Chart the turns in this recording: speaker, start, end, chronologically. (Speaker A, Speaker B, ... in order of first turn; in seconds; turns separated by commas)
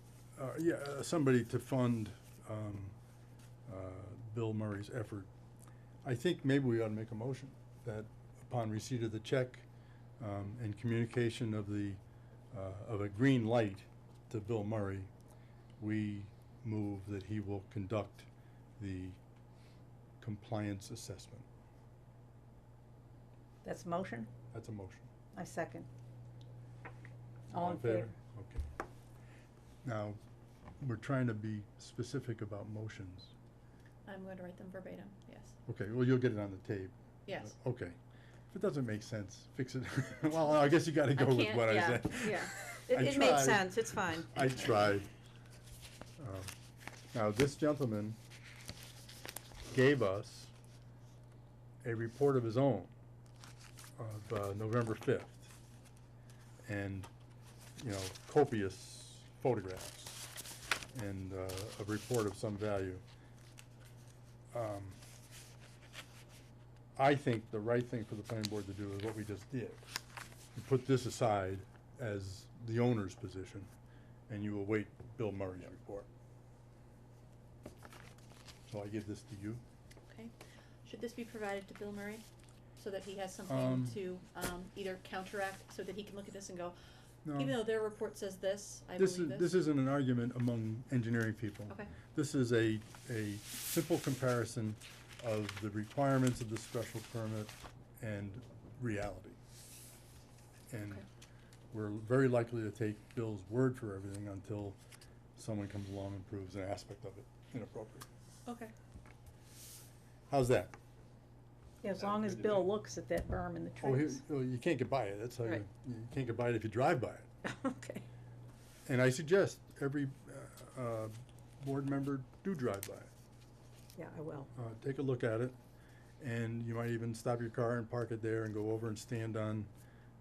Speaker A: 0.4-3.0, Speaker A: 3.7-5.3, Speaker A: 6.0-9.7, Speaker A: 10.2-12.0, Speaker A: 12.5-15.1, Speaker A: 15.8-18.3, Speaker A: 18.8-19.2, Speaker A: 20.2-21.5, Speaker B: 23.6-24.3, Speaker A: 24.5-25.1, Speaker B: 25.3-25.9, Speaker A: 27.5-28.6, Speaker B: 27.5-28.1, Speaker A: 29.8-30.2, Speaker A: 30.8-33.3, Speaker C: 34.1-35.5, Speaker A: 35.7-38.0, Speaker C: 37.3-37.6, Speaker A: 38.5-45.1, Speaker B: 41.1-44.5, Speaker C: 42.1-42.5, Speaker A: 46.2-46.5, Speaker A: 47.1-48.2, Speaker A: 49.7-50.5, Speaker A: 51.8-52.9, Speaker A: 54.0-55.5, Speaker A: 56.7-57.1, Speaker A: 57.8-60.3, Speaker A: 60.9-63.0, Speaker A: 64.5-65.0, Speaker A: 67.0-70.0, Speaker A: 70.5-73.7, Speaker A: 74.3-76.1, Speaker A: 78.7-79.6, Speaker C: 80.1-80.3, Speaker C: 80.8-82.2, Speaker C: 82.8-86.8, Speaker A: 83.5-84.0, Speaker A: 87.2-87.6, Speaker C: 87.3-89.6, Speaker A: 89.0-99.4, Speaker A: 100.7-101.0, Speaker A: 101.7-104.8, Speaker A: 105.4-108.1, Speaker C: 108.5-108.7, Speaker A: 110.3-110.7, Speaker B: 111.8-114.2, Speaker A: 113.8-117.3, Speaker B: 117.4-118.0, Speaker A: 118.9-123.1, Speaker B: 124.0-124.5, Speaker A: 124.5-125.6, Speaker A: 126.2-129.7